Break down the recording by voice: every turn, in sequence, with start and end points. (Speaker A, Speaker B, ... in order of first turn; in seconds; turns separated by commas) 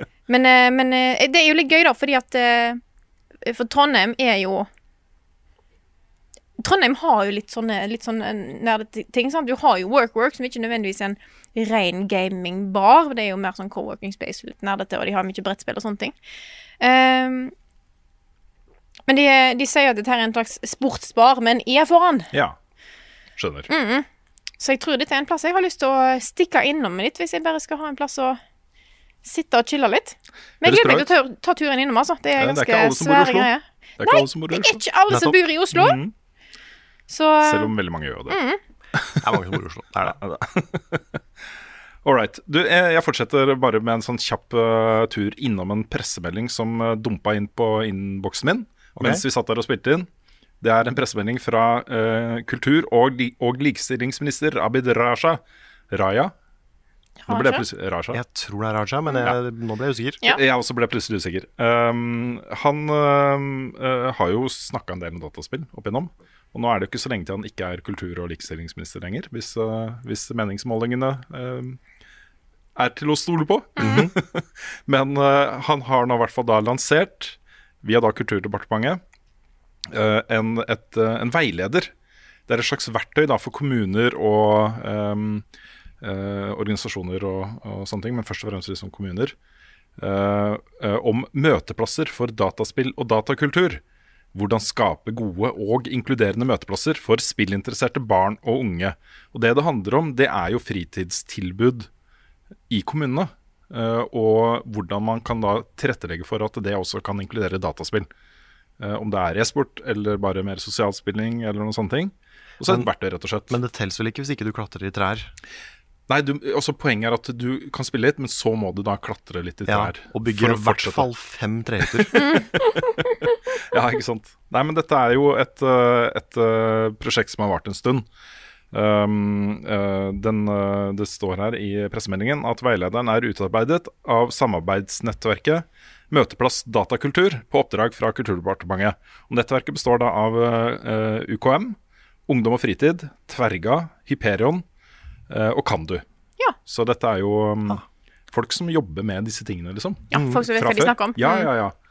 Speaker A: 0.3-2.8, Speaker A: 3.4-4.7, Speaker A: 6.6-16.1, Speaker A: 16.8-17.5, Speaker A: 19.1-22.3, Speaker B: 23.4-23.7, Speaker A: 23.7-24.1, Speaker A: 24.6-28.4, Speaker A: 29.2-36.0, Speaker B: 30.6-31.1, Speaker B: 32.4-34.8, Speaker B: 35.7-36.1, Speaker A: 37.1-37.7, Speaker B: 37.4-38.4, Speaker A: 38.3-38.6, Speaker B: 38.9-39.3, Speaker C: 39.2-40.2, Speaker B: 40.1-41.0, Speaker B: 42.0-50.1, Speaker C: 49.0-49.2, Speaker B: 50.6-55.4, Speaker B: 55.9-56.3, Speaker A: 57.2-57.6, Speaker B: 57.3-58.2, Speaker C: 58.1-60.2, Speaker B: 60.2-71.8, Speaker B: 72.8-79.0, Speaker A: 73.8-74.1, Speaker C: 73.8-74.1, Speaker B: 79.9-81.9, Speaker B: 82.5-85.4, Speaker B: 86.0-89.3, Speaker B: 90.0-93.8, Speaker B: 94.3-101.9, Speaker B: 102.7-108.1, Speaker B: 108.8-113.6, Speaker C: 112.6-112.9, Speaker C: 113.5-115.3, Speaker B: 116.1-121.1, Speaker C: 119.7-122.1, Speaker B: 121.9-122.7, Speaker A: 122.1-122.5, Speaker B: 123.5-128.1, Speaker B: 128.7-144.6, Speaker B: 145.3-146.0, Speaker B: 146.7-151.7, Speaker A: 150.1-151.5, Speaker C: 150.1-150.4